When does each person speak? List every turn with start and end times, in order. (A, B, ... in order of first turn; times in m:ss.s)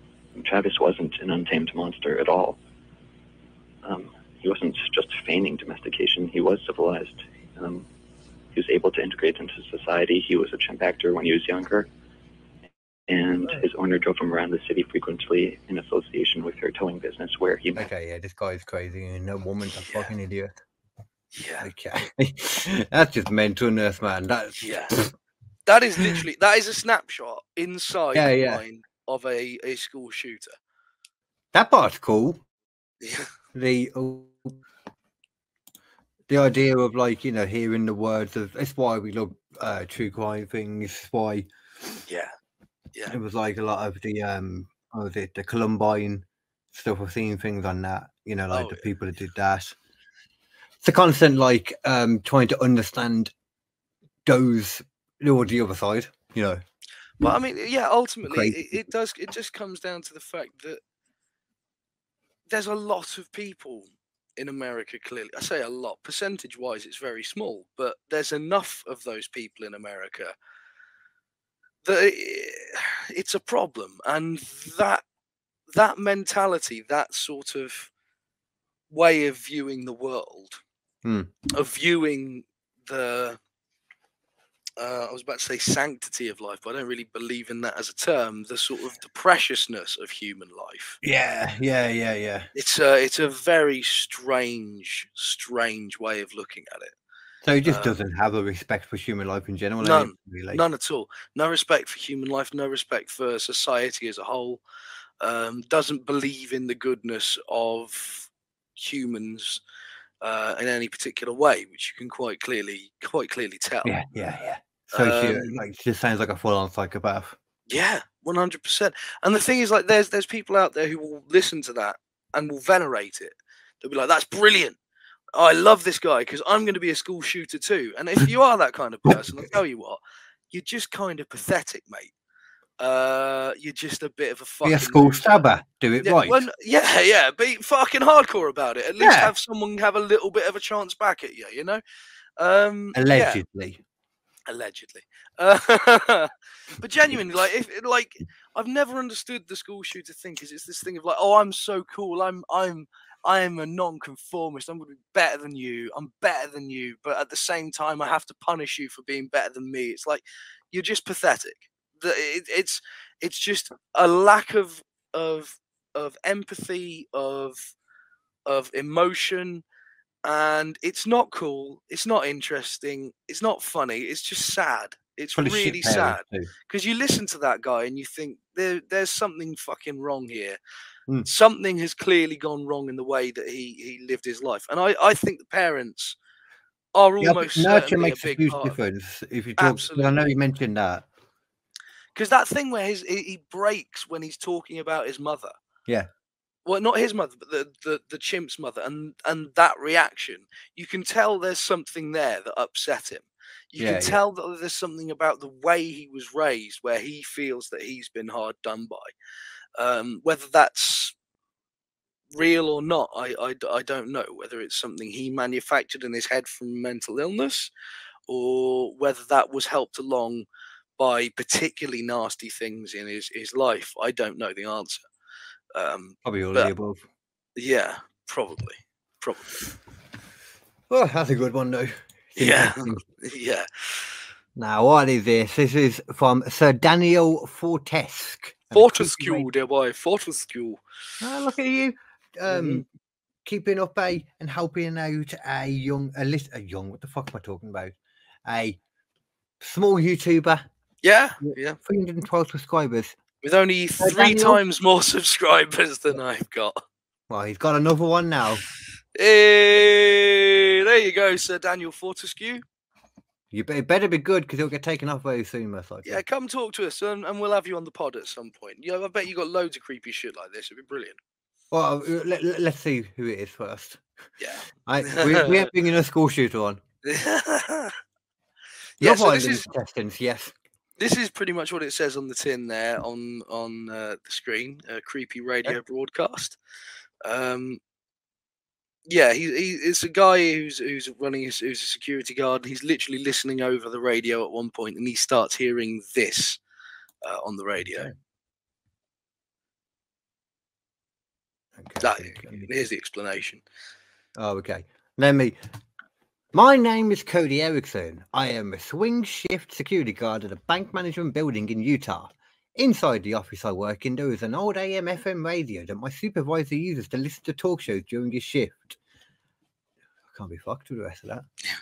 0:00.4-0:02.6 A
0:03.8-0:07.9 A
0:08.5-0:11.9 A
0:13.1-0:17.8 A
0:17.8-0:20.5 B
0:19.9-0:20.1 C
0:21.3-0:21.7 C
0:21.6-0:25.1 B
0:24.6-0:25.0 C
0:25.7-0:30.6 C
0:28.1-0:28.6 B
0:31.5-0:32.4 B
0:33.0-0:33.3 C
0:33.5-0:34.6 B
0:36.3-0:41.5 B
0:43.1-0:49.8 B
0:48.5-0:48.9 C
0:50.8-0:53.3 B
0:54.3-0:56.6 B
0:57.2-1:00.8 C
0:58.2-0:58.8 B
1:02.5-1:10.3 C
1:11.8-1:15.0 C
1:15.7-1:17.9 C
1:18.9-1:20.6 C
1:21.0-1:21.3 B
1:21.5-1:23.4 C
1:24.8-1:31.0 C
1:31.0-1:32.5 B
1:32.6-1:36.9 C
1:37.4-1:40.6 B
1:37.6-1:38.0 C
1:39.8-1:44.6 C
1:45.2-1:49.6 C
1:50.2-1:54.0 C
1:53.8-1:57.4 B
1:54.9-1:55.6 C
1:57.7-2:04.8 C
2:05.4-2:12.1 C
2:12.8-2:15.5 C
2:14.6-2:16.4 B
2:16.0-2:21.8 C
2:19.0-2:19.3 B
2:22.4-2:23.4 C
2:22.9-2:23.8 B
2:24.5-2:47.7 C
2:48.5-2:49.6 C
2:50.2-3:00.6 C
2:55.4-2:56.5 B
3:01.3-3:06.2 C
3:06.9-3:08.8 C
3:07.2-3:11.1 B
3:09.6-3:10.3 C
3:12.2-3:15.5 C
3:16.7-3:29.1 C
3:23.8-3:24.2 B
3:29.8-3:31.1 C
3:32.4-3:37.7 C
3:38.3-3:40.5 C
3:41.0-3:45.0 C
3:45.7-3:46.7 C
3:46.2-3:47.0 B
3:47.6-3:49.6 C
3:50.9-3:53.0 B
3:52.4-3:54.1 C
3:54.6-3:59.5 B
3:58.7-4:00.8 C
4:01.2-4:02.9 B
4:02.5-4:02.8 C
4:03.4-4:08.8 B
4:09.6-4:10.7 B
4:11.0-4:11.8 C
4:11.4-4:13.2 B
4:13.4-4:16.8 C
4:14.0-4:14.6 B
4:17.3-4:18.6 B
4:19.2-4:22.6 C
4:23.5-4:26.2 B
4:26.0-4:31.2 C
4:31.7-4:34.0 B
4:34.4-4:35.7 C
4:34.9-4:36.8 B
4:37.0-4:38.0 C
4:39.0-4:39.7 C
4:39.0-4:40.5 B
4:41.0-4:46.6 C
4:47.2-4:47.8 C
4:49.1-4:56.6 C
4:57.2-4:58.1 C
4:57.8-4:58.1 B
5:01.8-5:02.7 B
5:02.0-5:03.6 C
5:04.4-5:05.6 B
5:06.5-5:19.0 B
5:20.3-5:21.5 B